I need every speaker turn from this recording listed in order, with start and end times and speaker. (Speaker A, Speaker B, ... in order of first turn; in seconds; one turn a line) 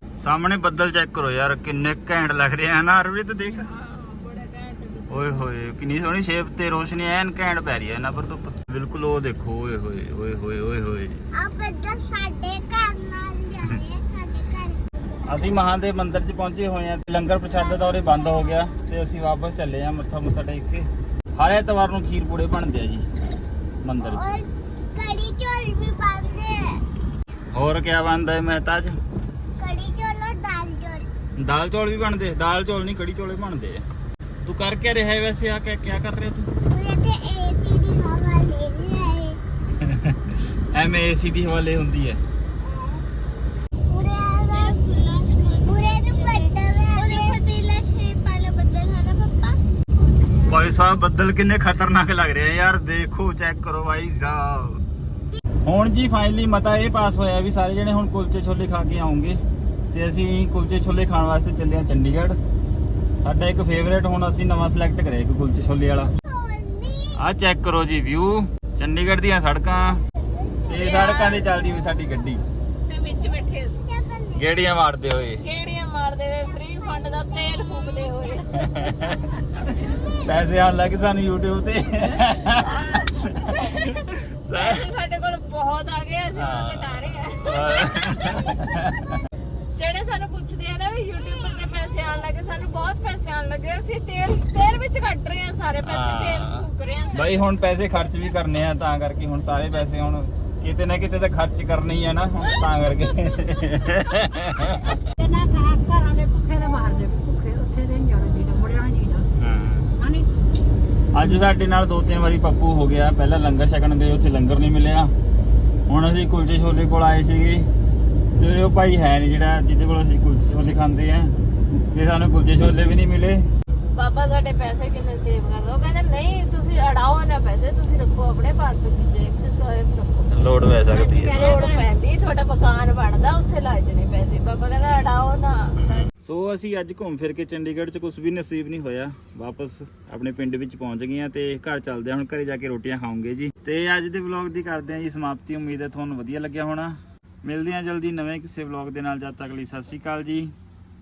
Speaker A: 0.2-3.7
Speaker B: 3.5-5.4
Speaker A: 5.1-11.2
Speaker C: 11.3-14.8
Speaker A: 15.2-23.1
Speaker C: 17.7-18.4
Speaker A: 23.8-24.3
Speaker C: 24.0-26.8
Speaker A: 27.5-29.0
Speaker C: 29.6-31.1
Speaker A: 31.4-33.8
Speaker A: 34.4-36.5
Speaker C: 36.7-39.4
Speaker A: 39.8-42.2
Speaker C: 42.6-43.0
Speaker C: 43.9-44.8
Speaker B: 44.5-49.5
Speaker C: 45.6-47.4
Speaker A: 50.5-54.8
Speaker A: 55.6-59.4
Speaker A: 59.9-62.4
Speaker A: 63.2-66.1
Speaker C: 66.2-67.2
Speaker A: 67.2-70.0
Speaker C: 70.4-70.7
Speaker A: 70.7-72.4
Speaker B: 70.7-71.5
Speaker B: 72.8-73.9
Speaker C: 73.8-74.5
Speaker A: 74.3-75.4
Speaker B: 75.4-78.7
Speaker C: 77.0-78.5
Speaker A: 78.5-79.6
Speaker C: 79.9-80.2
Speaker A: 80.2-84.8
Speaker B: 82.6-88.7
Speaker A: 86.4-86.9
Speaker A: 87.4-89.2
Speaker B: 89.7-97.4
Speaker A: 95.8-105.0
Speaker D: 105.2-109.3
Speaker A: 109.3-109.9
Speaker D: 110.0-110.3
Speaker A: 111.1-115.1
Speaker A: 115.9-117.7
Speaker A: 118.4-121.3
Speaker A: 121.9-123.5
Speaker B: 123.9-130.3
Speaker A: 130.3-131.5
Speaker B: 130.9-136.1
Speaker A: 136.2-150.5